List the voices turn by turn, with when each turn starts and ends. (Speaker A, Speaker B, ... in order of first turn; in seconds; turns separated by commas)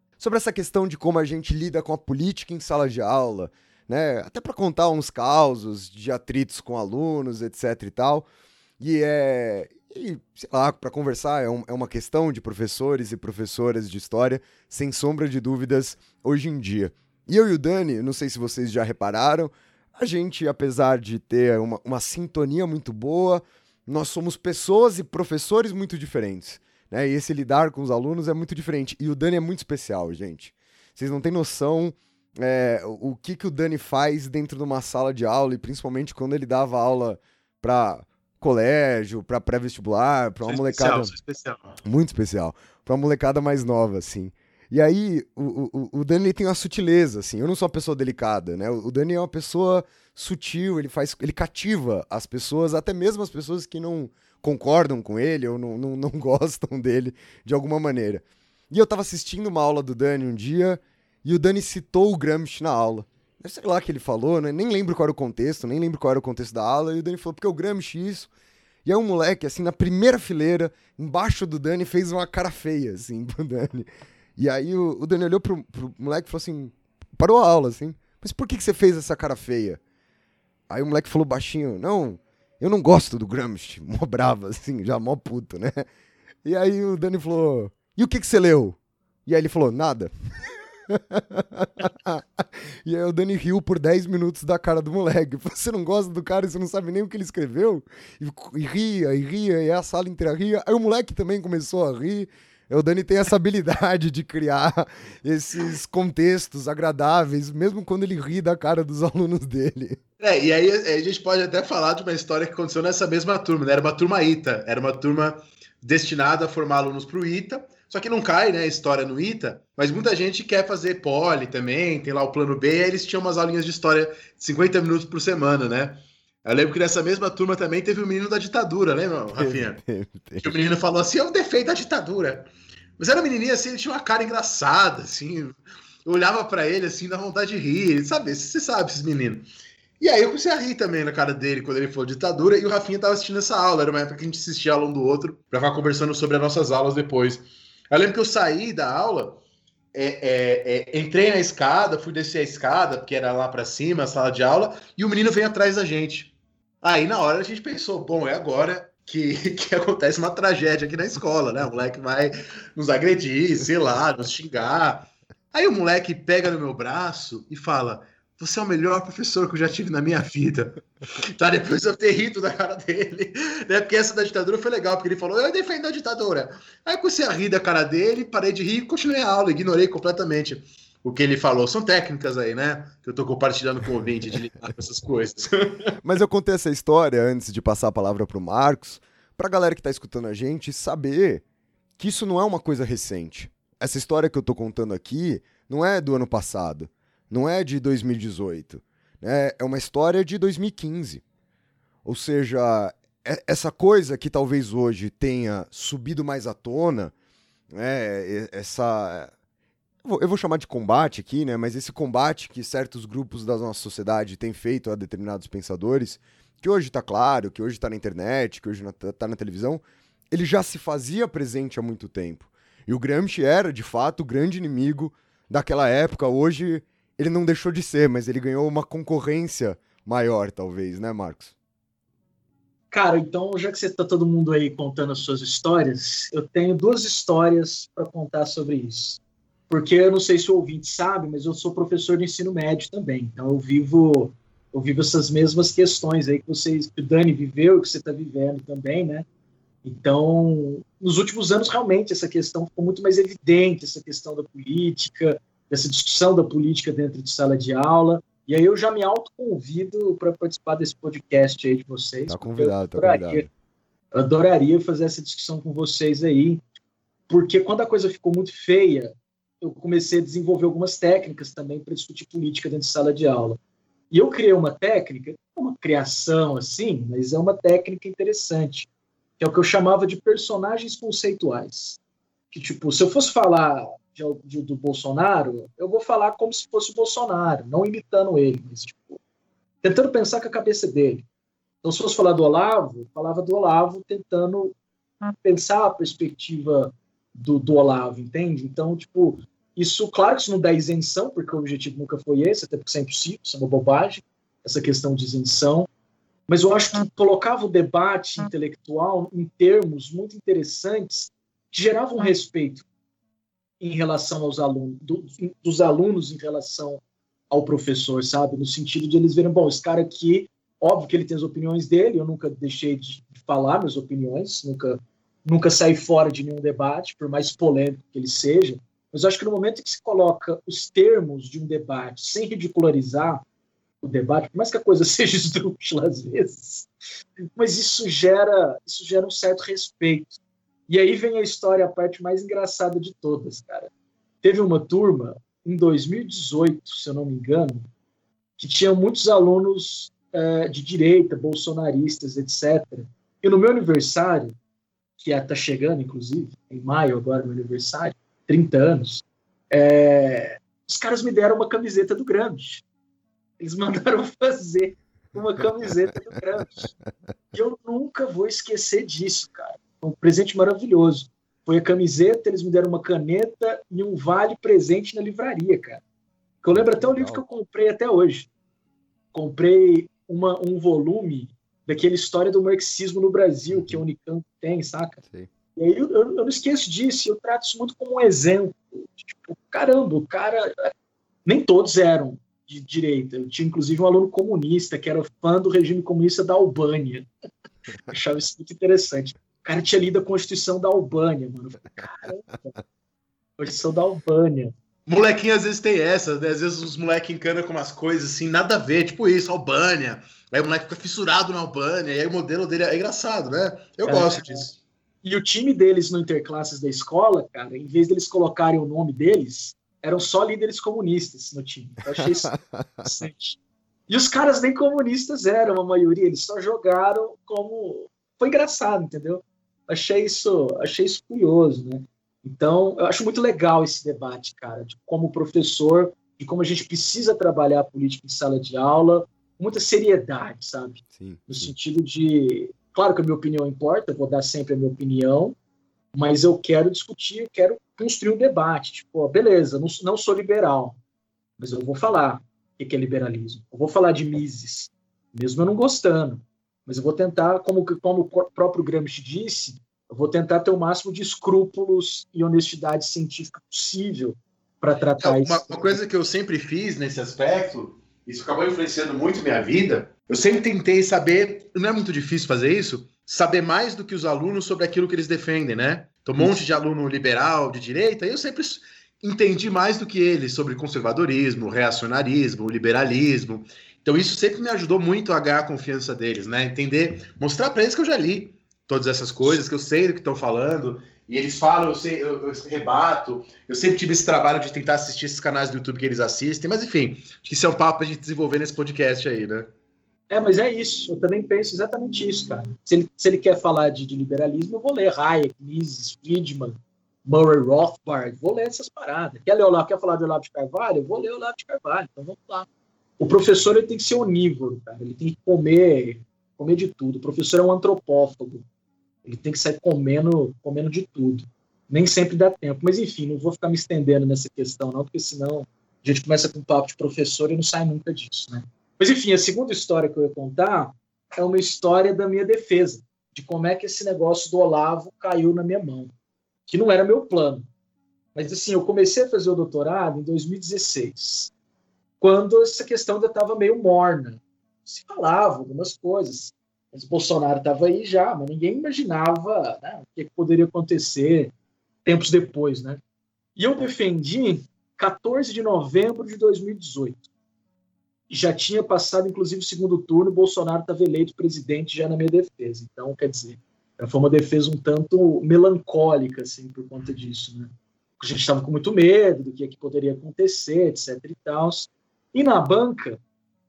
Speaker A: 0.2-8.3, Speaker A: 8.8-41.1, Speaker B: 40.4-41.8, Speaker A: 41.8-68.3, Speaker A: 68.8-79.8, Speaker A: 80.7-85.9, Speaker A: 86.4-110.0, Speaker B: 110.2-129.8, Speaker A: 129.4-130.6, Speaker B: 130.4-139.5, Speaker B: 140.0-149.4, Speaker B: 149.9-185.9, Speaker A: 186.0-191.4, Speaker A: 192.0-201.2, Speaker A: 202.0-207.1, Speaker A: 207.7-209.3, Speaker A: 210.0-231.5, Speaker C: 232.9-249.2, Speaker C: 249.8-263.4, Speaker A: 262.3-263.5, Speaker C: 264.1-266.6, Speaker C: 267.3-273.6, Speaker C: 274.1-282.0, Speaker C: 282.5-289.2, Speaker C: 289.8-291.2, Speaker C: 291.8-294.7, Speaker C: 295.4-305.9, Speaker C: 306.5-312.8, Speaker C: 313.8-333.4, Speaker C: 334.0-336.9, Speaker C: 337.6-343.9, Speaker C: 344.4-347.8, Speaker C: 348.6-354.5, Speaker C: 355.2-362.8, Speaker C: 363.6-366.9, Speaker C: 367.5-376.0, Speaker C: 376.6-378.5, Speaker A: 376.7-377.4, Speaker C: 379.3-385.2, Speaker A: 383.7-384.0, Speaker C: 385.8-390.9, Speaker C: 391.4-397.3, Speaker C: 398.1-402.8, Speaker C: 403.6-404.7, Speaker B: 405.1-414.7, Speaker C: 414.0-414.7, Speaker C: 415.2-422.5, Speaker A: 422.2-423.1, Speaker C: 423.0-423.6, Speaker C: 424.1-445.5, Speaker A: 441.1-441.7, Speaker C: 446.1-451.0, Speaker C: 451.6-466.0, Speaker B: 465.2-499.7, Speaker C: 500.3-512.7, Speaker C: 513.2-518.6, Speaker C: 519.2-536.1, Speaker C: 536.7-537.6, Speaker C: 538.3-541.5, Speaker C: 542.2-551.5, Speaker C: 552.0-553.0, Speaker C: 553.5-557.3, Speaker C: 558.3-573.2